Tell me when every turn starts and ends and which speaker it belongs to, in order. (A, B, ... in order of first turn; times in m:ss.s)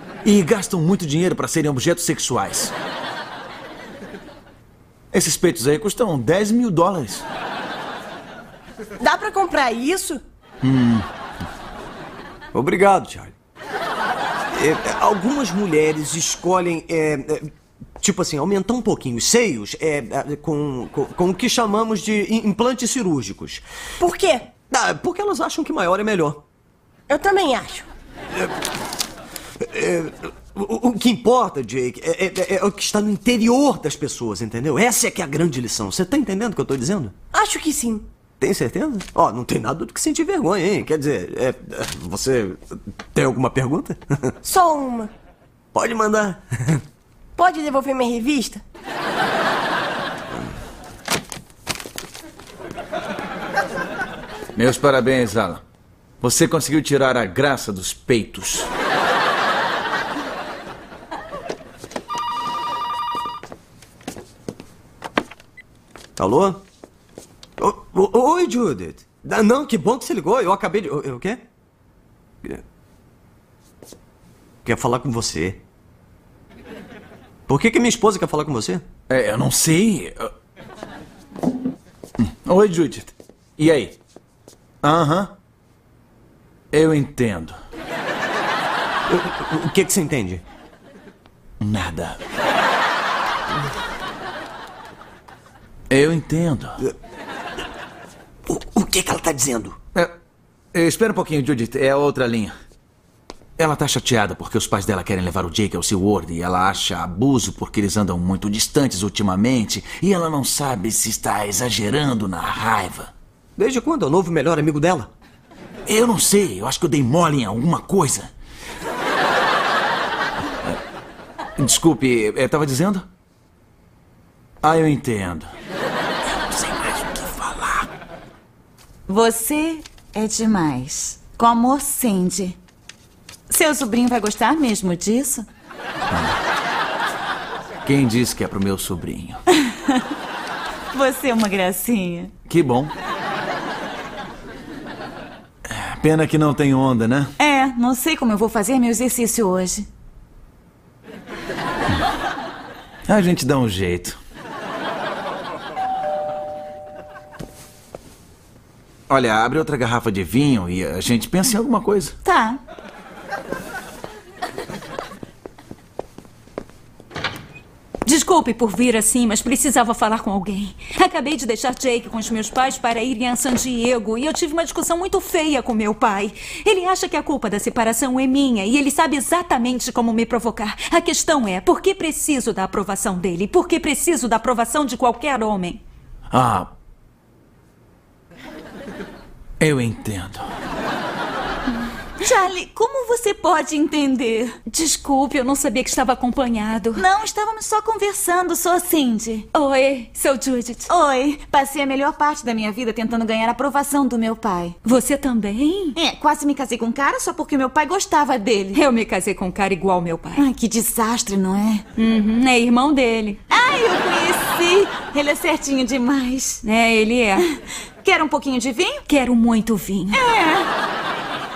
0:00.2-0:02.7 A
0:05.1-0:07.2 A
0:09.0-0:10.2 B
0:10.6-0:11.0 A
0:12.5-0:13.3 C
0:14.5-0:23.6 C
0:24.0-0:24.5 B
0:24.7-0:26.4 C
0:27.1-0:27.9 B
0:29.6-0:37.1 C
0:37.3-0:38.1 B
0:38.4-0:44.3 C
0:44.4-0:45.1 B
0:45.7-0:46.8 C
0:47.4-0:48.6 B
0:54.6-0:55.6 A
0:56.2-0:58.7 A
1:06.2-1:06.6 C
1:07.6-1:11.4 C
1:14.6-1:15.6 C
1:17.5-1:18.8 C
1:19.1-1:20.3 A
1:22.2-1:24.0 A
1:24.8-1:25.3 A
1:26.7-1:27.6 A
1:29.1-1:30.4 C
1:31.6-1:32.2 A
1:35.9-1:36.8 A
1:38.5-1:39.8 C
1:40.7-1:42.5 A
1:43.6-1:53.1 A
1:53.6-1:55.1 C
1:55.9-1:58.3 A
2:01.6-2:03.0 A
2:04.6-2:05.5 A
2:06.4-2:07.9 A
2:09.1-2:12.6 D
2:13.5-2:15.4 D
2:17.8-2:19.4 A
2:20.9-2:22.3 D
2:22.5-2:22.9 A
2:25.7-2:27.3 A
2:27.4-2:29.9 D
2:33.1-2:34.2 A
2:39.1-2:42.1 A
2:42.2-2:42.6 D
2:48.0-3:05.8 E
3:06.3-3:06.7 A
3:09.6-3:10.4 A
3:12.2-3:14.5 D
3:14.7-3:17.0 E
3:17.0-3:19.4 D
3:19.5-3:20.9 E
3:20.9-3:24.8 D
3:24.8-3:26.0 E
3:26.0-3:28.8 D
3:28.7-3:30.4 E
3:30.4-3:31.8 D
3:32.0-3:33.4 E
3:33.5-3:36.6 D
3:36.6-3:37.4 E
3:38.0-3:39.0 D
3:39.1-3:40.2 E
3:40.1-3:40.7 D